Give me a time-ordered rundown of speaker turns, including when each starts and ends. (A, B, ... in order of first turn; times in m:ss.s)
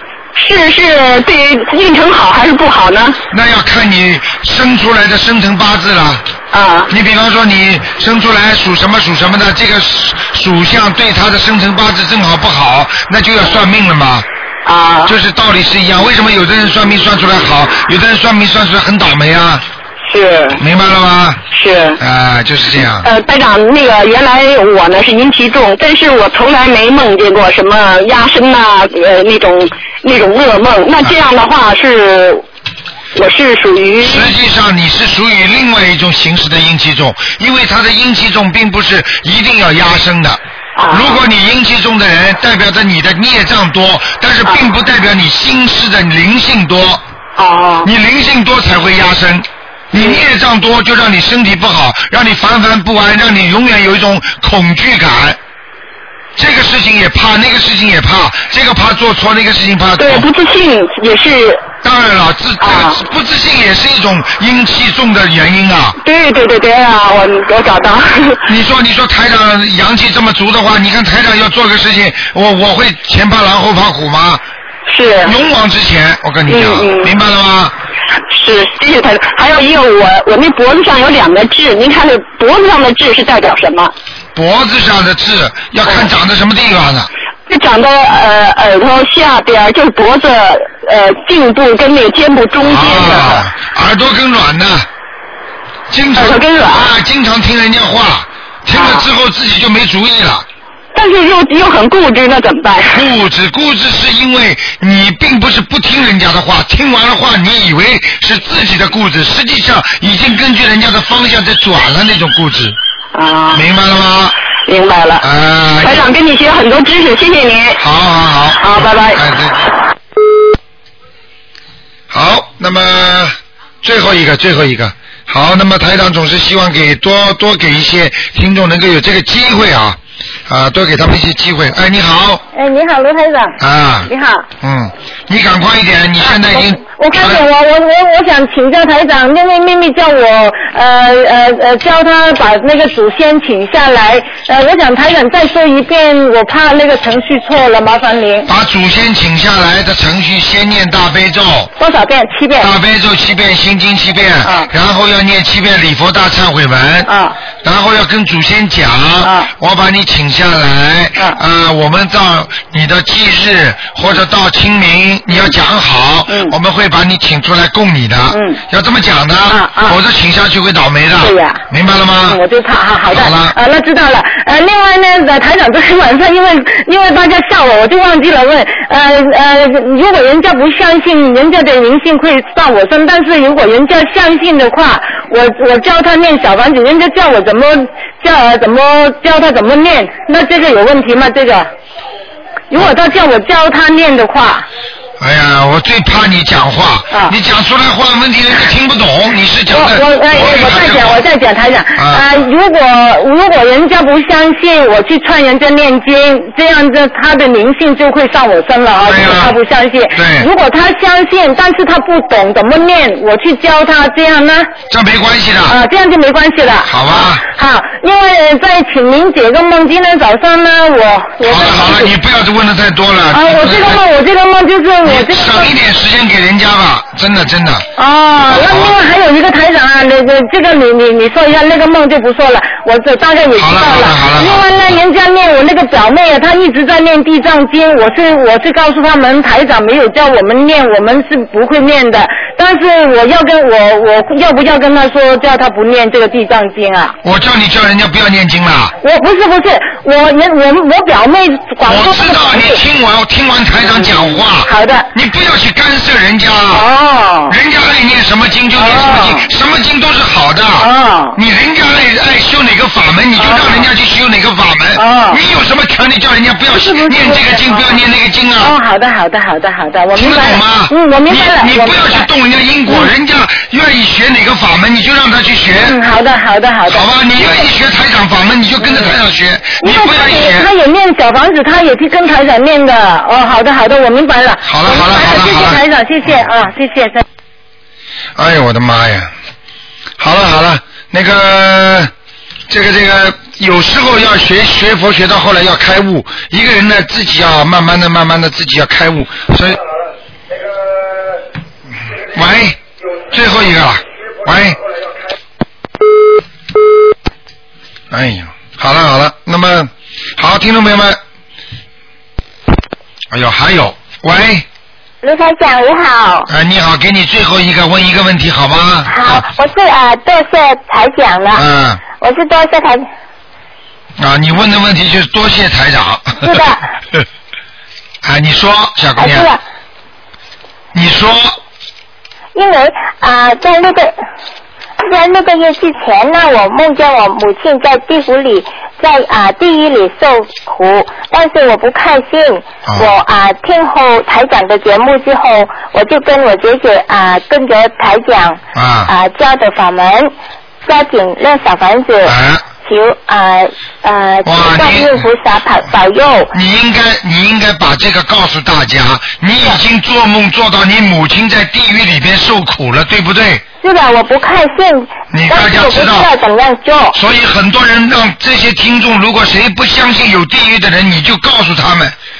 0:00.4-0:03.2 A
0:03.3-0:06.2 B
0:06.5-0:06.9 A
0:06.9-0:14.3 B
0:14.7-0:15.2 A
0:15.1-0:19.6 B
0:20.0-0:20.6 A
0:20.6-0:21.4 B
0:21.5-0:22.0 A
0:22.0-0:23.1 B
0:23.0-0:32.4 A
0:33.1-0:34.3 A
0:34.0-0:47.0 B
0:40.8-0:41.2 A
0:47.4-0:47.9 A
0:47.8-0:55.4 B
0:50.0-0:50.3 A
0:56.4-1:00.2 B
1:00.0-1:01.7 A
1:01.8-1:06.0 B
1:02.6-1:03.0 A
1:06.0-1:08.5 A
1:08.5-1:14.4 B
1:14.9-1:15.4 A
1:15.2-1:17.7 B
1:16.5-1:17.1 A
1:18.3-1:23.9 A
1:24.4-1:27.1 B
1:27.5-1:33.5 A
1:32.6-1:34.9 B
1:35.9-1:40.5 B
1:36.1-1:36.9 A
1:38.7-1:39.1 A
1:41.0-1:43.1 A
1:42.9-1:52.8 B
1:53.1-1:53.7 A
1:53.5-1:54.4 B
1:54.7-1:55.3 A
1:55.2-1:56.1 B
1:55.8-1:57.8 A
1:57.8-1:59.7 B
1:58.6-1:59.2 A
2:02.1-2:12.4 B
2:12.5-2:14.4 C
2:13.6-2:14.1 B
2:14.6-2:17.4 B
2:16.2-2:28.5 C
2:28.5-2:31.7 B
2:31.8-2:32.7 C
2:32.6-2:37.1 B
2:37.6-2:52.4 B
2:39.2-2:39.5 C
2:48.3-2:48.6 C
2:49.5-2:50.0 C
2:51.2-2:51.6 C
2:52.3-3:11.7 C
2:53.1-2:53.6 B
3:12.7-3:14.6 C
3:15.2-3:21.2 B
3:19.7-3:34.7 C
3:22.0-3:22.3 B
3:29.0-3:29.6 B
3:30.1-3:30.5 B
3:34.9-3:35.8 B
3:35.7-3:42.1 C
3:36.9-3:37.4 B
3:41.4-3:44.0 B
3:43.3-3:45.7 C
3:45.0-3:47.9 B
3:48.0-4:07.2 C
3:48.4-3:49.0 B
3:53.6-3:55.0 B
4:07.2-4:08.9 B
4:09.0-4:12.8 C
4:11.8-4:16.9 B
4:13.9-4:15.1 C
4:16.7-4:17.6 C
4:17.5-4:28.7 B
4:18.8-4:19.5 C
4:20.8-4:21.4 C
4:23.4-4:23.9 C
4:25.0-4:25.4 C
4:26.7-4:28.0 C
4:28.6-4:32.3 C
4:30.2-4:36.0 B
4:32.9-4:33.1 C
4:35.8-4:37.7 C
4:36.9-4:40.7 B
4:38.8-4:39.2 C
4:39.8-4:47.2 C
4:44.6-4:45.8 B
4:48.4-4:49.3 B
4:50.2-4:52.1 B
4:52.7-4:59.8 B
5:02.3-5:04.8 B
5:08.1-5:11.2 B
5:13.3-5:14.6 B
5:15.2-5:16.5 D
5:16.5-5:19.4 B
5:19.1-5:23.1 D
5:21.6-5:22.0 B
5:24.2-5:26.6 B
5:26.4-5:26.8 D
5:28.2-5:29.5 B
5:29.2-5:29.6 D
5:30.9-5:31.6 B
5:32.6-5:34.1 D
5:35.0-5:50.3 D
5:42.9-5:43.2 B
5:48.7-5:49.1 B
5:50.8-5:56.5 D
5:52.2-5:52.6 B
5:54.4-5:55.3 B
5:56.5-6:03.6 B
6:03.8-6:07.2 D
6:05.3-6:06.3 B
6:07.2-6:12.2 B